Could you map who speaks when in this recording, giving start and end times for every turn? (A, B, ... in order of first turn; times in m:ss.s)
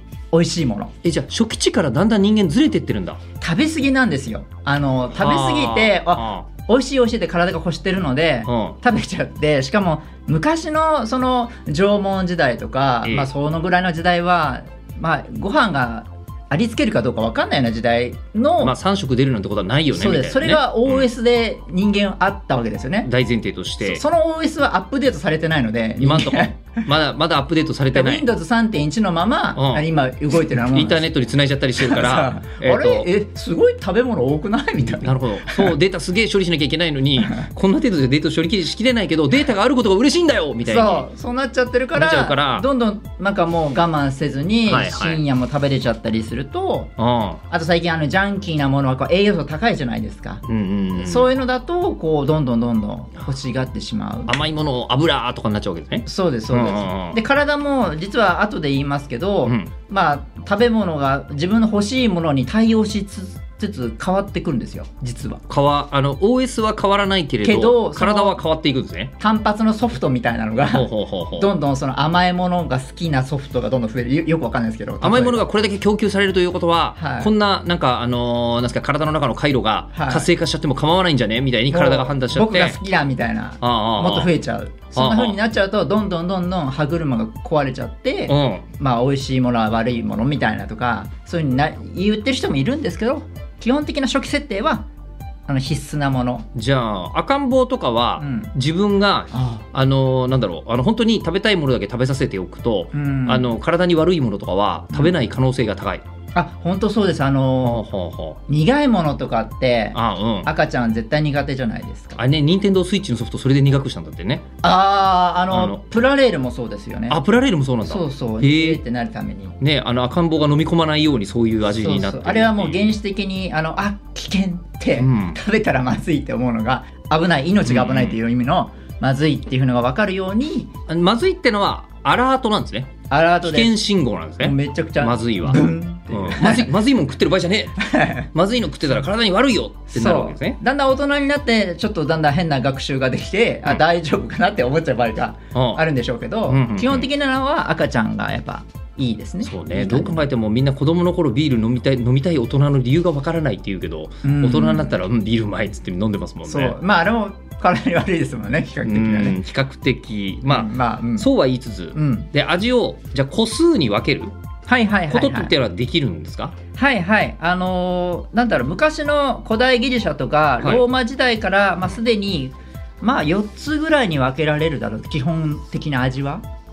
0:00.3-0:00.9 A
0:01.0-0:03.2 B
0:03.4-0:18.7 A
0:05.1-0:06.5 B
0:08.5-0:08.8 B
0:13.0-0:13.3 B
0:18.6-0:21.1 B
0:20.0-0:23.1 A
0:23.0-0:24.0 B
0:23.8-0:26.6 A
0:26.0-0:28.3 B
0:27.9-0:31.1 A
0:29.6-0:29.9 B
0:30.5-0:33.1 B
0:31.8-0:35.7 A
0:34.9-0:41.1 B
0:40.6-0:46.9 A
0:42.0-0:42.7 B
0:44.7-0:45.2 B
0:47.0-0:47.4 B
0:47.5-0:50.4 A
0:50.4-0:51.3 B
0:51.0-0:54.3 A
0:54.3-0:57.2 B
0:56.1-1:05.4 A
0:59.4-0:59.7 B
1:05.5-1:09.1 B
1:07.4-1:08.4 A
1:09.2-1:15.4 A
1:10.7-1:11.5 B
1:15.0-1:22.8 B
1:17.0-1:17.3 A
1:19.9-1:20.3 A
1:21.7-1:34.9 A
1:23.6-1:24.3 B
1:24.9-1:25.4 B
1:28.3-1:28.6 B
1:35.5-1:36.5 A
1:36.6-1:46.0 B
1:38.2-1:38.5 A
1:39.3-1:39.6 A
1:42.9-1:43.6 A
1:46.4-1:47.8 A
1:47.6-1:48.4 B
1:48.5-1:52.2 A
1:49.9-1:50.5 B
1:52.2-1:54.4 B
1:54.6-1:57.2 A
1:55.5-1:55.8 B
1:57.1-1:58.8 B
1:57.8-1:59.6 A
1:59.6-2:02.9 B
2:01.8-2:10.7 A
2:05.0-2:05.4 B
2:07.6-2:08.2 B
2:10.9-2:20.6 B
2:13.1-2:13.8 A
2:14.4-2:16.8 A
2:17.8-2:18.3 A
2:19.9-2:30.2 A
2:25.5-2:25.8 B
2:26.5-2:27.1 B
2:29.4-2:36.8 B
2:34.2-2:34.9 A
2:36.5-2:39.4 A
2:38.8-2:44.3 B
2:40.5-2:41.3 A
2:41.9-2:42.3 A
2:44.7-2:45.5 A
2:45.1-2:46.6 B
2:46.8-2:56.4 A